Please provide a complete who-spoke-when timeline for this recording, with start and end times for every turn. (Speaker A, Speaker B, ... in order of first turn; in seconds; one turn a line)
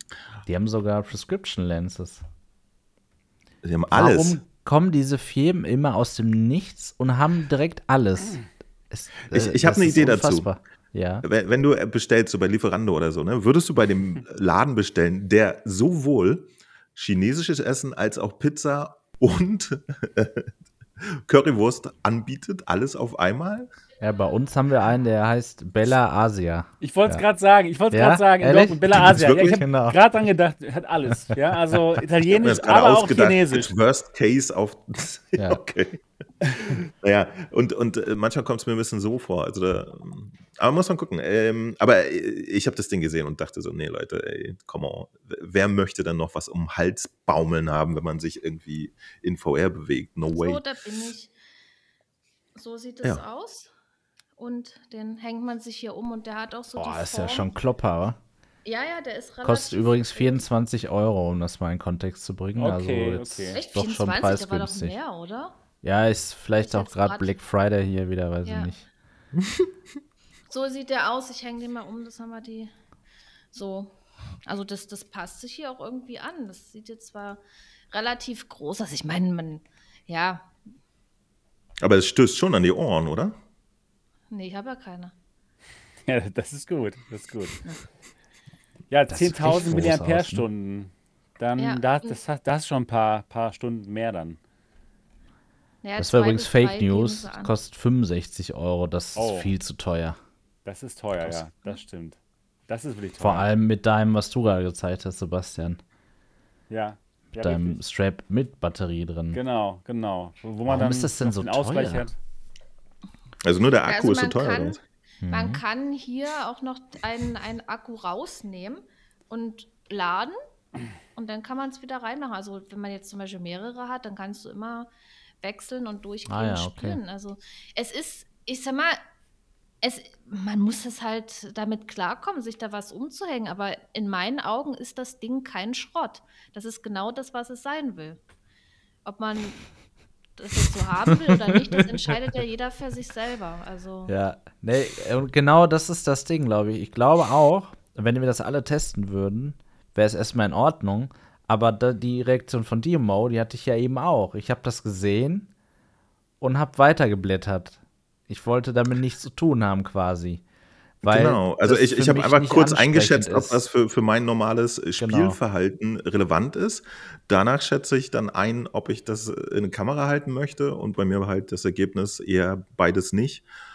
Speaker A: 0.5-2.2
Speaker B: 3.6-4.4
Speaker A: 3.9-11.2
Speaker B: 9.3-10.5
Speaker B: 11.2-20.5
Speaker B: 21.0-23.7
Speaker A: 24.0-27.2
Speaker C: 26.8-33.7
Speaker A: 27.9-30.0
Speaker B: 29.0-29.6
Speaker B: 32.3-50.6
Speaker D: 50.3-51.3
Speaker D: 52.5-53.7
Speaker D: 54.4-57.5
Speaker A: 56.8-58.2
Speaker D: 58.6-60.4
Speaker A: 59.4-64.9
Speaker C: 62.6-63.6
Speaker D: 63.5-65.5
Speaker A: 65.8-68.8
Speaker D: 66.6-67.3
Speaker D: 68.4-68.7
Speaker B: 69.4-69.7
Speaker D: 70.5-72.7
Speaker D: 73.5-73.9
Speaker D: 74.5-80.5
Speaker B: 81.8-83.4
Speaker D: 84.3-85.1
Speaker C: 86.1-87.6
Speaker C: 88.9-94.4
Speaker A: 89.1-90.5
Speaker D: 91.6-92.2
Speaker D: 95.8-97.5
Speaker A: 96.0-100.2
Speaker C: 99.2-99.5
Speaker C: 100.6-103.5
Speaker A: 103.2-105.8
Speaker C: 106.7-107.8
Speaker A: 107.4-109.4
Speaker C: 109.3-112.2
Speaker A: 110.7-112.0
Speaker B: 113.4-114.8
Speaker D: 113.8-120.4
Speaker A: 115.2-115.6
Speaker D: 121.2-124.9
Speaker D: 125.4-129.0
Speaker A: 126.3-127.0
Speaker D: 129.8-138.2
Speaker D: 139.0-139.7
Speaker D: 140.4-144.1
Speaker A: 144.1-155.5
Speaker A: 156.4-160.4
Speaker A: 161.0-163.6
Speaker B: 161.0-173.4
Speaker A: 165.0-165.4